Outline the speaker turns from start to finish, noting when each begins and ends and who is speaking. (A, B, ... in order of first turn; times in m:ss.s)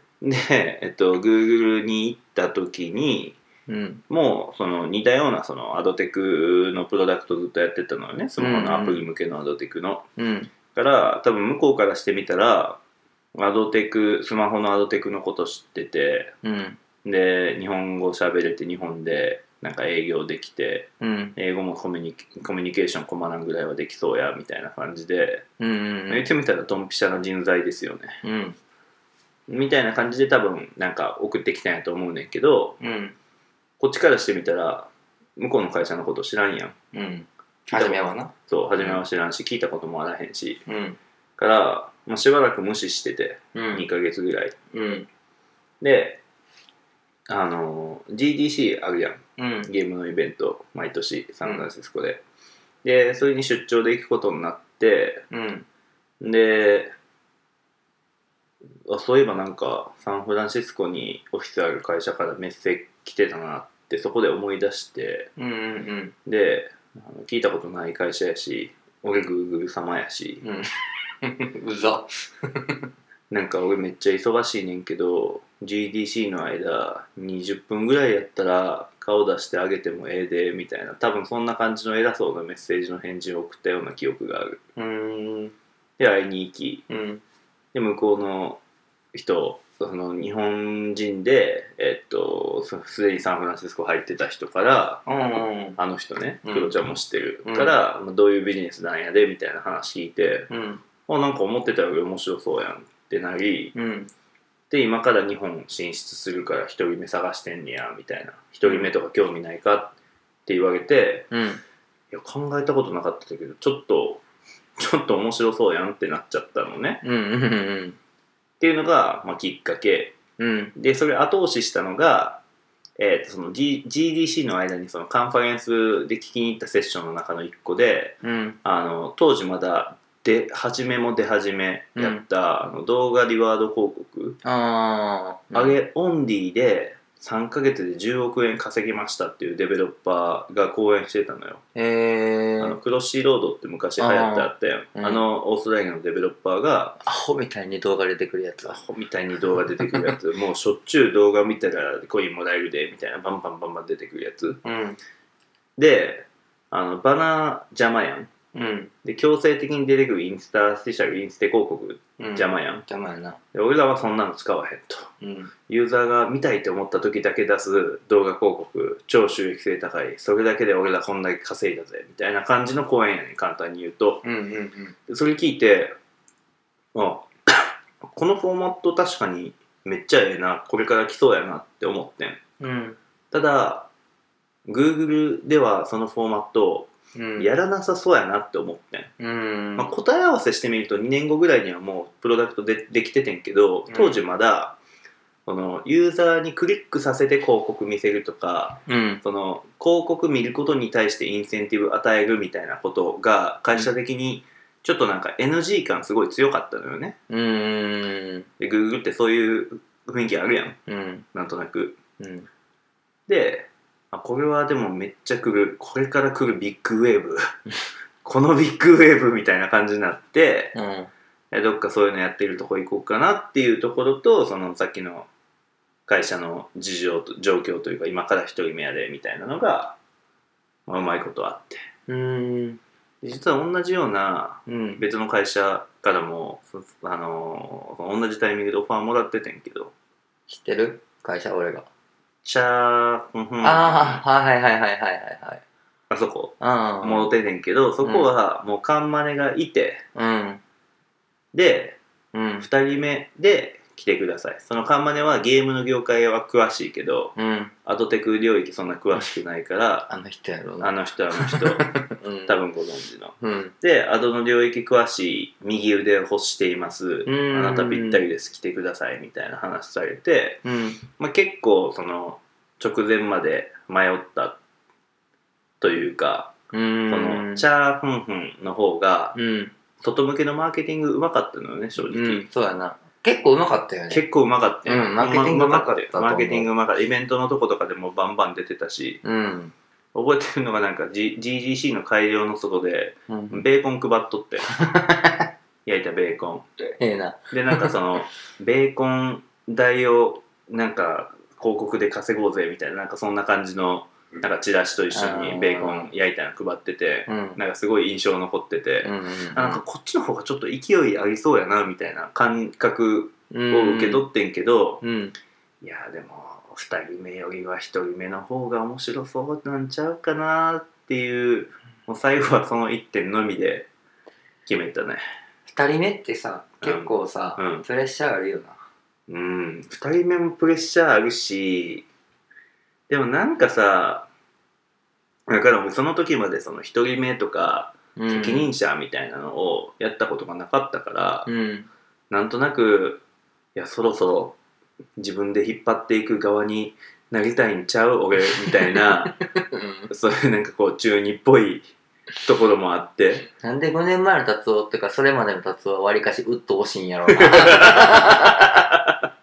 0:00.2-0:03.4 A
0:03.7-0:04.0 B
0:04.1-0:10.1 A
0:08.4-0:09.0 B
0:10.2-0:10.5 B
0:10.7-0:12.8 A
0:13.3-0:16.4 A
0:16.4-0:16.8 B
0:17.0-0:25.4 A
0:21.0-0:21.4 B
0:25.6-0:26.3 B
0:26.1-0:28.2 A
0:28.2-0:28.6 B
0:29.5-0:32.8 A
0:32.8-0:33.2 B
0:33.8-0:36.8 A
0:36.9-0:39.0 B
0:37.7-0:40.6 A
0:40.6-0:41.0 B
0:41.4-0:44.5 A
0:43.5-0:43.8 B
0:44.7-0:45.1 B
0:45.8-0:46.2 A
0:47.3-0:52.2 A
0:49.4-0:49.7 B
0:52.8-0:55.3 A
0:55.3-0:55.6 B
0:56.2-0:56.9 A
0:58.9-1:05.3 A
1:05.4-1:06.1 B
1:06.2-1:10.4 A
1:10.4-1:10.7 B
1:11.2-1:12.8 B
1:13.3-1:24.6 A
1:24.8-1:25.5 B
1:26.0-1:26.8 A
1:26.9-1:27.2 B
1:27.7-1:28.6 A
1:29.1-1:35.0 A
1:35.0-1:35.8 B
1:35.8-1:40.5 A
1:36.4-1:36.7 B
1:37.4-1:37.8 B
1:40.5-1:40.8 B
1:41.0-1:43.7 A
1:43.7-1:44.1 B
1:44.7-1:50.0 A
1:48.6-1:48.9 B
1:50.5-1:51.3 A
1:51.3-1:51.6 B
1:52.1-1:54.2 A
1:54.8-1:57.0 A
1:57.0-1:58.0 B
1:58.6-2:00.2 A
2:00.4-2:00.7 B
2:00.8-2:02.4 A
2:03.0-2:14.4 A
2:08.2-2:08.6 B
2:12.0-2:12.2 B
2:14.4-2:15.8 B
2:15.5-2:21.6 A
2:21.7-2:22.8 B
2:22.6-2:27.0 A
2:24.0-2:25.2 B
2:27.0-2:28.8 B
2:28.6-2:34.6 A
2:29.6-2:30.1 B
2:34.6-2:35.0 B
2:35.8-2:38.3 A
2:38.5-2:38.9 B
2:39.0-2:42.8 A
2:42.2-2:43.4 B
2:43.5-2:45.1 A
2:45.2-2:45.5 B
2:45.7-2:54.2 A
2:54.2-2:54.9 B
2:55.1-2:56.0 A
2:56.9-3:02.4 A
3:02.6-3:03.0 B
3:03.3-3:03.9 A
3:04.7-3:09.1 A
3:07.1-3:07.5 B
3:09.2-3:09.9 B
3:09.8-3:14.8 A
3:13.9-3:14.2 B
3:15.4-3:27.2 A
3:18.8-3:19.2 B
3:27.3-3:28.5 B
3:28.6-3:30.8 A
3:30.9-3:31.2 B
3:31.3-3:32.0 A
3:32.2-3:32.5 B
3:33.3-3:37.5 A
3:38.2-3:40.8 A
3:40.7-3:41.1 B
3:41.5-3:45.3 A
3:46.1-3:50.0 A
3:50.9-3:51.9 A
3:52.1-3:52.8 B
3:53.2-3:59.9 A
3:54.6-3:55.0 B
4:00.5-4:01.9 B
4:02.4-4:04.2 A
4:03.6-4:05.6 B
4:06.1-4:10.0 A
4:06.6-4:07.3 B
4:08.0-4:08.3 B
4:10.1-4:10.6 B
4:11.5-4:12.0 A
4:12.3-4:12.6 B
4:12.6-4:20.1 A
4:17.4-4:17.7 B
4:20.1-4:22.5 B
4:20.8-4:21.9 A
4:22.4-4:30.6 A
4:23.4-4:23.7 B
4:27.2-4:28.2 B
4:30.6-4:31.0 B
4:31.2-4:34.6 A
4:35.8-4:36.6 A
4:36.7-4:37.6 B
4:37.1-4:39.4 A
4:39.3-4:39.7 B
4:40.0-4:42.4 A
4:42.0-4:44.2 B
4:44.1-4:49.2 A
4:44.8-4:46.7 B
4:49.2-4:49.7 B
4:50.1-4:54.7 A
4:53.3-4:53.6 B
4:54.7-4:55.5 B
4:55.8-4:56.6 A
4:57.0-4:57.9 B
4:57.5-5:15.0 A
5:05.1-5:06.1 B
5:07.3-5:07.6 B
5:09.0-5:09.8 B
5:13.5-5:14.2 B
5:15.0-5:15.3 B
5:15.8-5:23.9 A
5:24.6-5:25.2 A
5:25.7-5:28.8 B
5:26.8-5:27.8 A
5:29.3-5:32.0 A
5:33.1-5:34.3 A
5:35.5-5:41.5 A
5:38.2-5:38.7 B
5:41.4-5:41.9 B
5:42.3-5:43.2 A
5:43.7-5:44.6 A
5:45.2-5:49.4 A
5:49.0-5:50.1 B
5:50.1-5:53.5 A
5:53.6-5:58.6 B
5:57.3-5:59.2 A